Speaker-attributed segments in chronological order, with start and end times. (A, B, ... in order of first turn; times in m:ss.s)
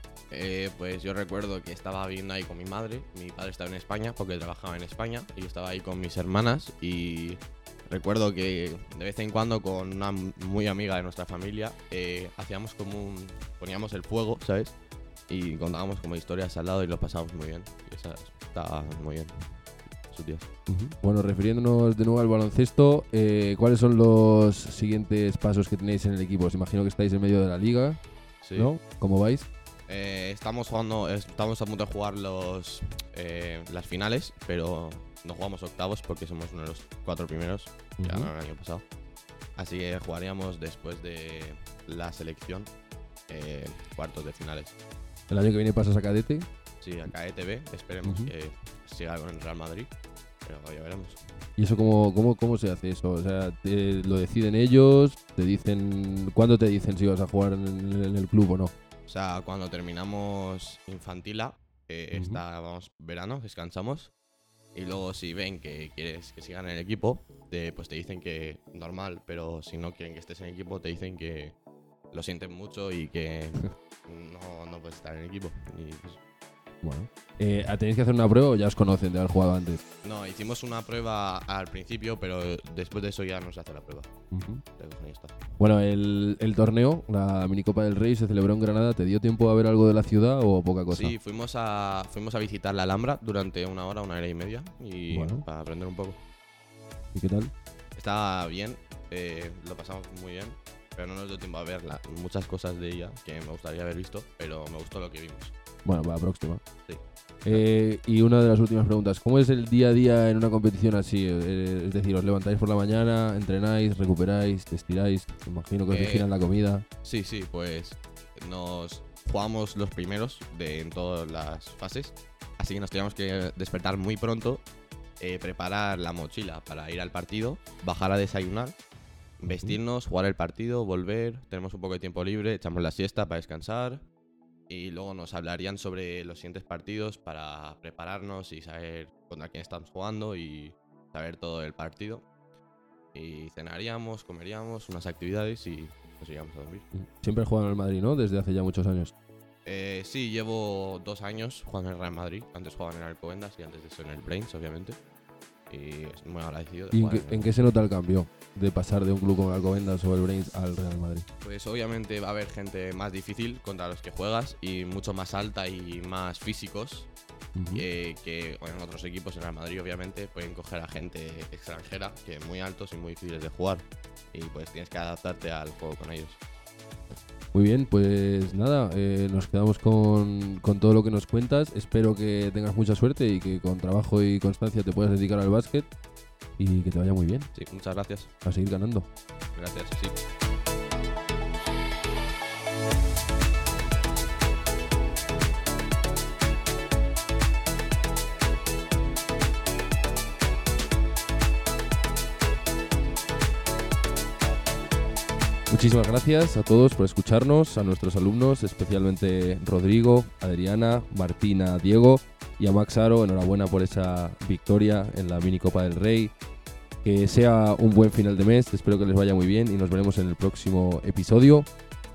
0:00.3-0:14.8 A
0:15.3-0:20.5 A
0:20.7-0:28.0 B
0:28.4-0:28.7 A
0:28.6-0:29.5 B
0:29.9-0:38.8 A
0:38.0-0:38.3 B
0:39.6-0:42.7 A
0:43.3-0:44.8 A
0:45.3-0:46.5 B
0:46.8-0:49.9 A
0:48.0-0:48.3 B
0:50.4-0:51.2 A
0:51.6-0:58.7 B
0:59.1-1:04.1 A
1:02.1-1:02.4 B
1:04.8-1:11.6 A
1:12.1-1:16.2 A
1:16.8-1:19.8 B
1:20.0-1:24.2 A
1:24.3-1:24.6 B
1:24.7-1:25.4 A
1:25.6-1:31.1 B
1:30.9-1:36.2 A
1:35.1-1:35.4 B
1:37.1-1:37.5 B
1:38.0-1:45.5 A
1:45.8-1:46.6 B
1:46.9-1:47.6 A
1:47.4-1:56.8 B
1:55.9-1:56.3 A
1:57.0-2:04.6 A
2:05.2-2:08.8 A
2:09.4-2:14.0 A
2:09.5-2:09.8 B
2:14.7-2:22.2 A
2:23.1-2:26.9 A
2:26.9-2:29.1 B
2:29.6-2:35.0 A
2:35.7-2:37.5 A
2:36.9-2:41.3 B
2:41.4-2:47.1 A
2:47.6-2:47.9 B
2:47.7-2:56.4 A
2:57.5-3:05.9 B
3:06.6-3:07.5 B
3:07.5-3:08.3 A
3:08.4-3:09.1 B
3:09.6-3:10.2 A
3:25.7-3:36.3 B
3:37.0-3:41.7 B